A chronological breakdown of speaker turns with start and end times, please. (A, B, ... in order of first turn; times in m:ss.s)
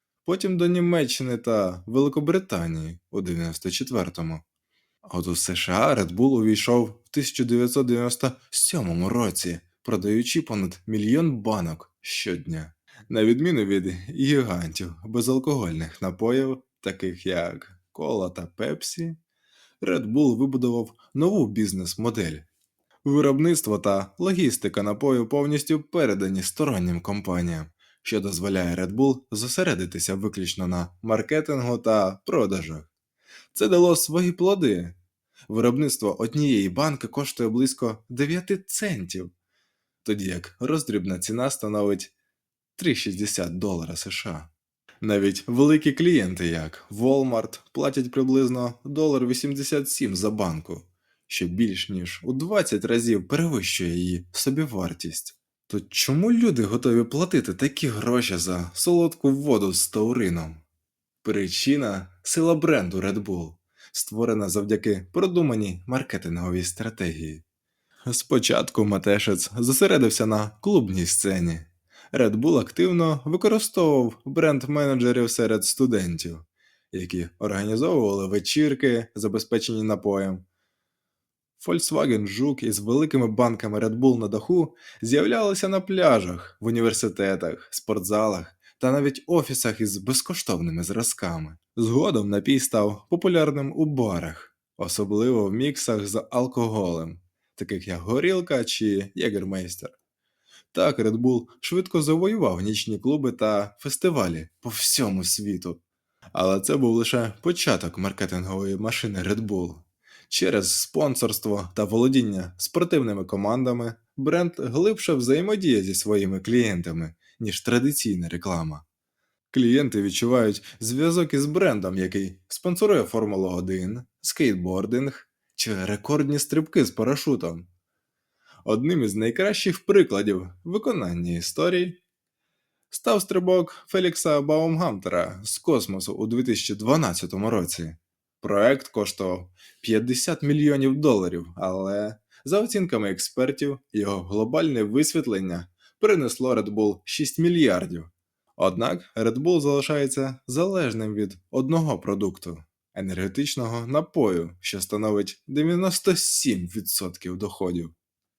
0:00.2-0:04.4 A
0:05.0-0:19.2 A
0:19.8-0:22.4 A
0:23.0-0:32.9 A
0:33.5-0:35.0 A
0:35.5-0:39.3 A
0:40.0-0:42.1 A
0:42.8-0:44.5 A
0:45.0-1:00.6 A
1:01.2-1:07.4 A
1:08.1-1:20.4 A
1:21.6-1:40.0 A
1:40.7-1:45.8 A
1:46.3-1:58.8 A
1:59.5-2:07.7 A
2:08.6-2:12.0 A
2:12.9-2:37.9 A